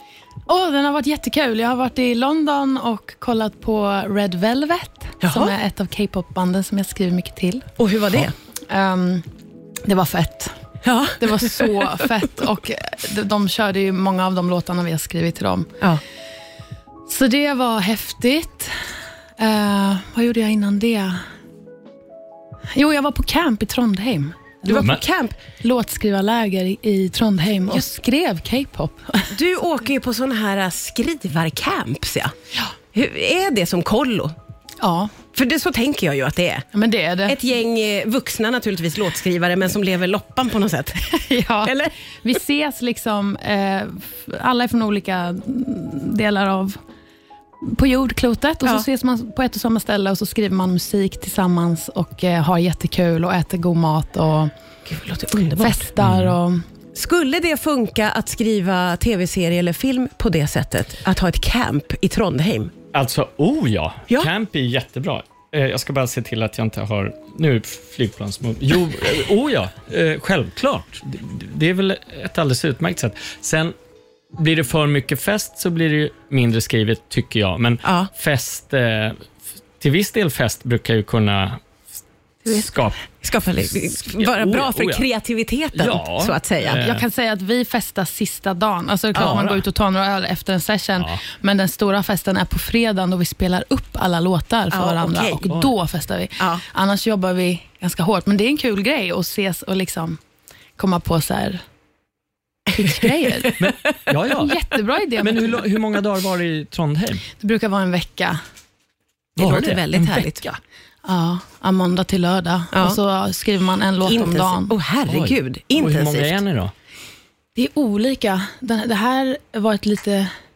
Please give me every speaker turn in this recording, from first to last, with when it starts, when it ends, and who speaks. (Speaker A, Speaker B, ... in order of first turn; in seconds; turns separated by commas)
Speaker A: 0.5-7.7, Speaker B: 5.2-5.5, Speaker B: 7.8-8.3, Speaker A: 8.7-9.2, Speaker A: 9.8-10.5, Speaker B: 10.8-11.9, Speaker A: 11.2-15.7, Speaker A: 17.1-18.7, Speaker A: 19.4-21.2, Speaker A: 22.7-24.9, Speaker B: 24.6-25.4, Speaker A: 25.6-29.3, Speaker B: 29.3-32.3, Speaker B: 32.9-34.3, Speaker A: 34.8-35.1, Speaker B: 35.3-36.6, Speaker A: 36.7-37.4, Speaker B: 37.2-41.0, Speaker A: 41.0-46.8, Speaker B: 41.6-41.9, Speaker A: 47.6-54.5, Speaker B: 54.9-55.8, Speaker A: 55.6-56.6, Speaker C: 56.0-56.4, Speaker B: 57.0-62.7, Speaker C: 62.9-73.7, Speaker C: 74.4-79.2, Speaker B: 77.8-78.1, Speaker C: 79.8-81.6, Speaker C: 82.4-85.1, Speaker B: 82.5-86.8, Speaker C: 85.7-87.0, Speaker A: 86.8-100.2, Speaker C: 89.2-89.6, Speaker B: 94.7-95.4, Speaker B: 96.4-96.6, Speaker A: 100.8-101.6, Speaker A: 102.7-103.6, Speaker C: 103.6-104.6, Speaker A: 104.3-105.7, Speaker C: 105.2-107.2, Speaker A: 107.4-108.4, Speaker B: 109.3-110.4, Speaker C: 109.4-110.6, Speaker A: 111.0-114.7, Speaker B: 112.7-113.0, Speaker B: 114.0-116.3, Speaker C: 115.1-116.7, Speaker A: 117.5-120.3